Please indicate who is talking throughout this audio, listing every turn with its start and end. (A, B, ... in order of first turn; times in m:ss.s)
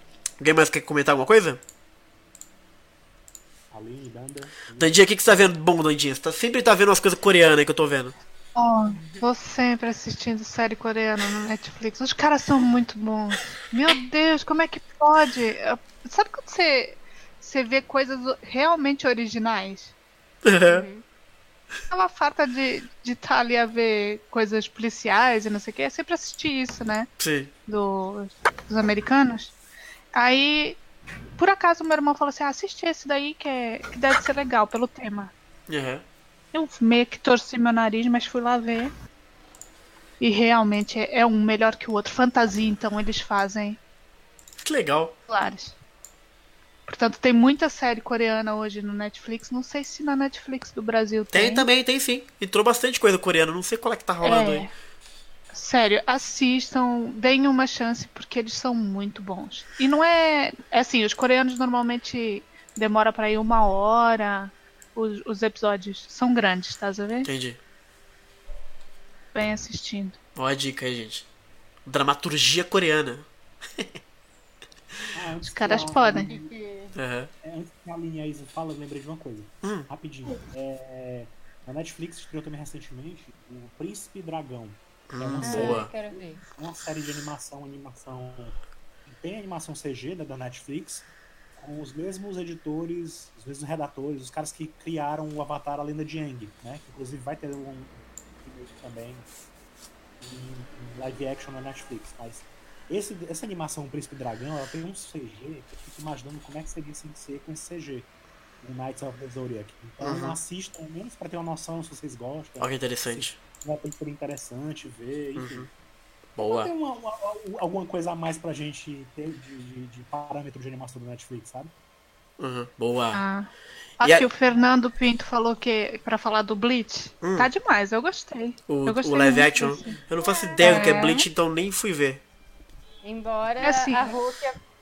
0:00.4-0:01.6 A
0:03.7-0:05.0 B
0:04.8-0:08.1 A
0:08.6-0:19.9 C
0:08.8-0:09.3 D
0:20.4-0:20.8 A
0:20.7-0:21.0 D
0:21.9-0:27.1 C
0:27.2-0:27.5 A
0:27.7-0:29.5 C
0:30.1-0:30.8 C
0:31.4-0:35.3 C
0:35.7-0:36.0 A
0:36.5-0:38.9 C
0:40.2-0:43.8 C
0:44.6-0:45.1 A
0:45.3-0:45.8 C
0:46.9-0:51.7 C
0:51.3-0:54.7 A
0:54.2-0:54.7 C
0:55.5-1:07.3 C
1:07.2-1:07.6 A
1:09.3-1:10.2 C
1:10.4-1:11.2 A
1:11.8-1:13.2 A
1:15.1-1:16.5 B
1:15.4-1:16.3 C
1:16.2-1:16.9 D
1:16.9-1:17.3 A
1:17.4-1:39.3 B
1:19.6-1:19.9 A
1:25.1-1:25.9 A
1:25.4-1:26.4 D
1:40.2-1:48.1 B
1:48.6-1:55.7 B
1:50.0-1:50.4 A
1:52.6-1:53.4 A
1:55.4-1:55.7 A
1:56.4-1:56.7 A
1:56.4-2:01.7 B
2:02.4-2:03.2 A
2:03.1-2:03.5 C
2:04.0-2:10.0 C
2:07.2-2:07.5 A
2:08.7-2:12.2 A
2:09.7-2:11.2 D
2:10.6-2:11.2 C
2:13.0-2:14.6 D
2:13.6-2:14.2 C